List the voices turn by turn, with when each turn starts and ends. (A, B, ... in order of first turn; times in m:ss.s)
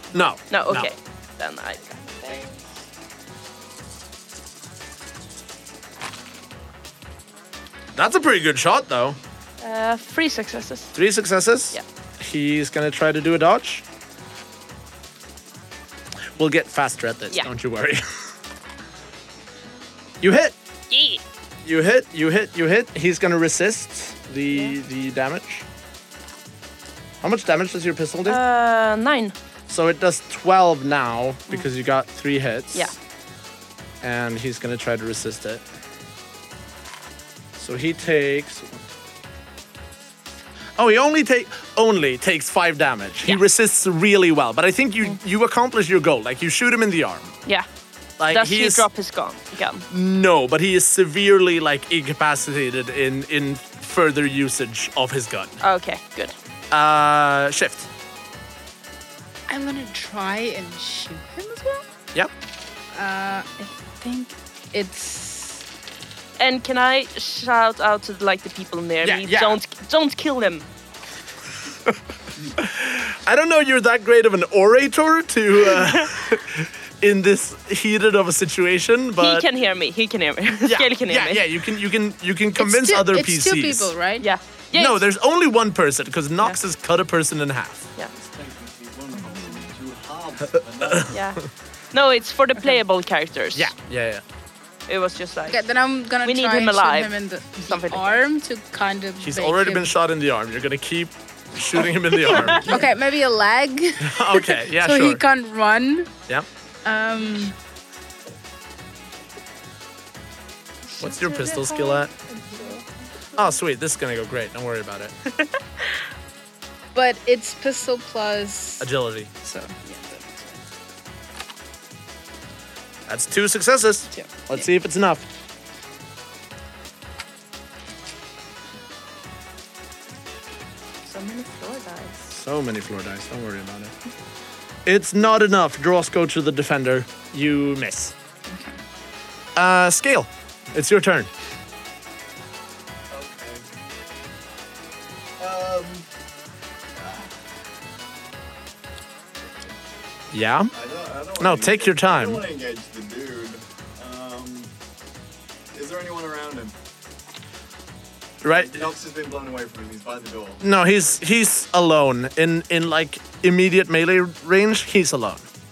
0:00.1-0:00.9 A
0:00.5-0:02.7 B
0:08.0-0:09.2 A
0:09.6-0:11.0 B
0:10.9-0:13.8 A
0:16.4-0:18.0 A
0:20.2-0:20.6 A
0:20.9-0:21.2 B
0:21.6-0:25.7 A
0:27.2-0:28.4 A
0:28.3-0:29.4 B
0:29.7-0:33.0 A
0:34.0-0:35.6 A
0:37.6-0:38.9 A
0:40.8-0:47.4 A
0:48.2-0:48.8 A
0:48.3-0:49.9 B
0:49.9-0:55.6 A
0:55.6-0:56.4 B
0:56.7-0:57.9 A
0:59.5-1:01.8 C
1:02.9-1:05.6 C
1:06.4-1:10.7 B
1:09.0-1:09.6 A
1:12.5-1:19.4 A
1:15.7-1:16.0 B
1:19.2-1:21.5 B
1:20.7-1:23.9 A
1:22.6-1:24.3 C
1:24.2-1:25.0 B
1:24.7-1:27.9 A
1:28.1-1:31.2 D
1:29.3-1:29.6 C
1:30.8-1:31.1 A
1:31.1-1:33.7 B
1:33.6-1:34.2 A
1:34.9-1:35.7 B
1:35.5-1:39.9 C
1:36.2-1:38.2 B
1:39.2-1:42.8 A
1:42.3-1:42.8 B
1:42.4-1:46.1 C
1:44.0-1:45.2 A
1:46.8-1:47.6 C
1:50.9-1:52.8 B
1:51.0-1:52.1 A
1:52.4-1:52.8 C
1:53.4-1:55.1 A
1:55.3-1:56.0 B
1:56.9-1:58.9 C
1:58.8-1:59.3 A
1:59.4-2:00.6 C
2:03.1-2:05.2 A
2:04.1-2:04.7 C
2:11.0-2:12.4 B
2:12.3-2:13.9 A
2:14.8-2:18.2 A
2:18.5-2:18.8 C
2:19.6-2:21.3 A
2:23.1-2:23.6 D
2:25.4-2:26.1 D
2:27.0-2:27.6 D
2:29.4-2:29.8 D
2:30.3-2:30.7 A
2:30.7-2:34.7 D
2:31.4-2:32.4 A
2:35.7-2:36.8 D
2:38.4-2:38.8 A
2:38.5-2:40.6 D
2:40.6-2:45.5 A